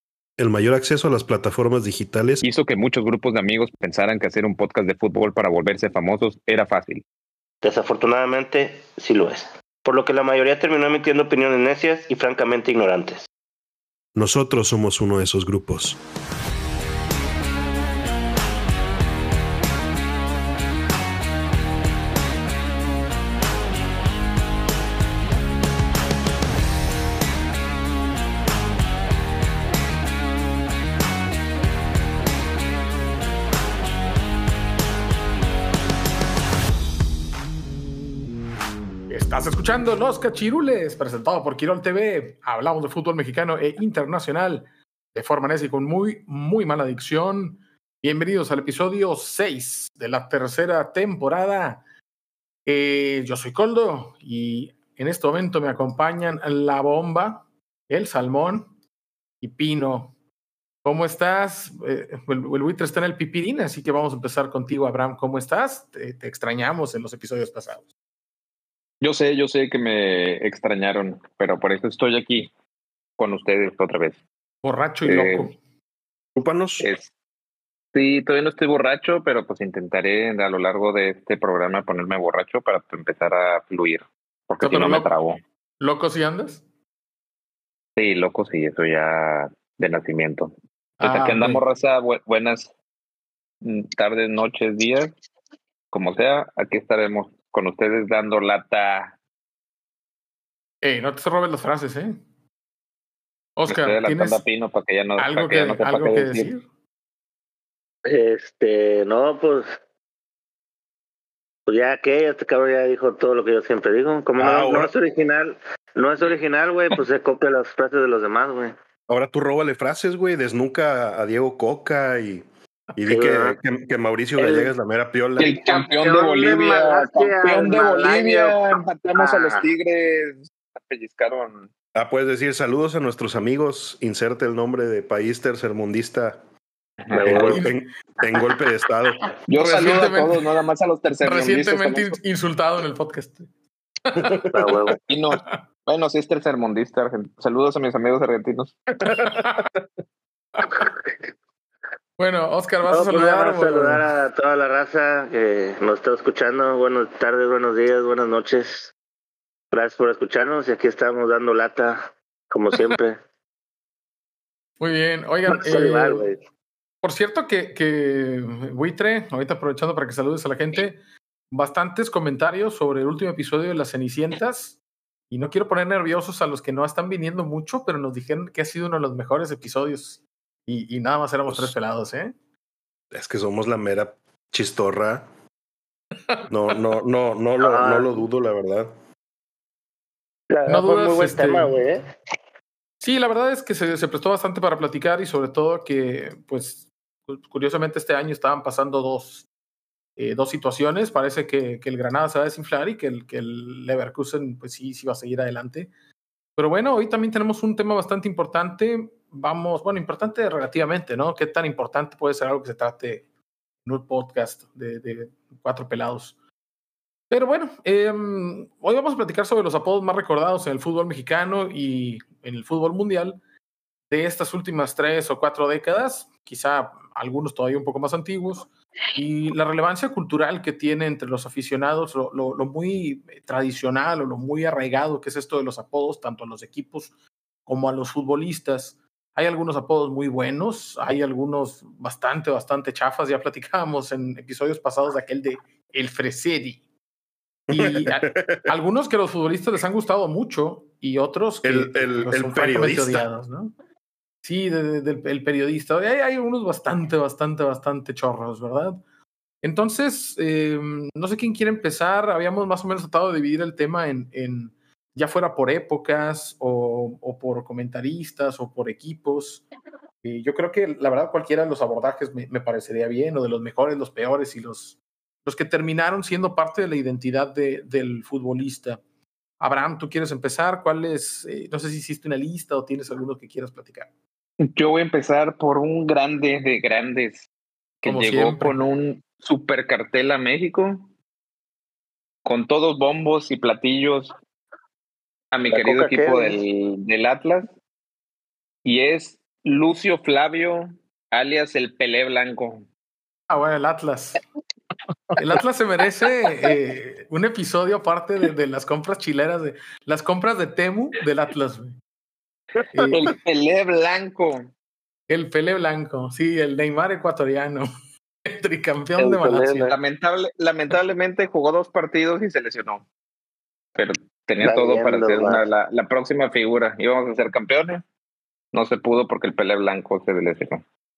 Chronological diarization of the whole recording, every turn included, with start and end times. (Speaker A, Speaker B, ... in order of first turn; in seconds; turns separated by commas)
Speaker A: 0.4-2.4, Speaker B: 2.4-7.0, Speaker C: 7.6-13.3, Speaker A: 14.2-16.0, Speaker D: 39.1-51.8, Speaker D: 52.7-58.7, Speaker D: 59.4-60.1, Speaker D: 60.8-67.8, Speaker B: 69.0-72.5, Speaker B: 73.2-74.2, Speaker D: 74.6-75.6, Speaker B: 75.0-75.5, Speaker A: 76.3-76.9, Speaker B: 76.8-77.1, Speaker B: 77.9-85.4, Speaker D: 84.6-85.1, Speaker D: 85.8-86.6, Speaker B: 88.0-92.7, Speaker D: 91.0-91.6, Speaker B: 93.6-95.1, Speaker B: 95.9-99.2, Speaker D: 100.8-102.2, Speaker D: 103.6-104.4, Speaker B: 103.7-106.5, Speaker D: 105.2-106.6, Speaker C: 108.0-109.8, Speaker C: 111.7-118.8, Speaker A: 114.4-114.9, Speaker A: 119.1-122.5, Speaker A: 123.0-125.6, Speaker C: 123.0-123.6, Speaker C: 124.4-124.7, Speaker B: 125.4-131.7, Speaker C: 125.6-129.7, Speaker A: 131.9-136.4, Speaker B: 137.0-137.5, Speaker C: 137.1-137.7, Speaker A: 137.2-139.2, Speaker D: 137.4-137.8, Speaker B: 139.5-142.2, Speaker D: 139.6-140.4, Speaker D: 141.2-143.5, Speaker D: 144.1-144.4, Speaker A: 144.2-144.8, Speaker C: 144.5-145.0, Speaker B: 145.0-148.8, Speaker D: 149.1-149.7, Speaker D: 152.2-154.0, Speaker C: 152.9-158.9, Speaker C: 159.7-163.2, Speaker D: 164.8-166.3, Speaker C: 165.5-166.4, Speaker D: 167.0-171.0, Speaker D: 171.5-182.3, Speaker A: 181.5-181.7, Speaker A: 183.1-185.3, Speaker D: 186.3-186.8, Speaker A: 186.5-188.9, Speaker C: 187.6-188.2, Speaker C: 190.5-192.1, Speaker D: 190.7-191.8, Speaker D: 193.0-199.5, Speaker D: 200.2-205.9, Speaker D: 206.6-213.3, Speaker D: 213.8-216.3, Speaker D: 217.3-223.4, Speaker D: 224.1-237.1, Speaker D: 237.7-246.8, Speaker D: 247.7-253.7, Speaker A: 247.7-248.7, Speaker A: 251.6-253.2, Speaker D: 254.4-259.0, Speaker D: 259.6-269.6, Speaker D: 270.2-279.0, Speaker D: 279.6-284.1, Speaker B: 284.6-287.5, Speaker B: 288.0-291.1, Speaker D: 288.1-288.8, Speaker B: 292.4-294.3, Speaker B: 295.5-297.7, Speaker C: 295.7-296.6, Speaker B: 298.9-302.9, Speaker D: 303.5-304.4, Speaker D: 305.4-311.9, Speaker D: 312.9-313.3, Speaker B: 313.1-314.7, Speaker D: 315.3-317.9, Speaker D: 318.5-319.9, Speaker C: 319.2-319.9, Speaker B: 319.9-323.0, Speaker B: 324.0-328.0, Speaker C: 324.6-325.6, Speaker B: 328.7-330.8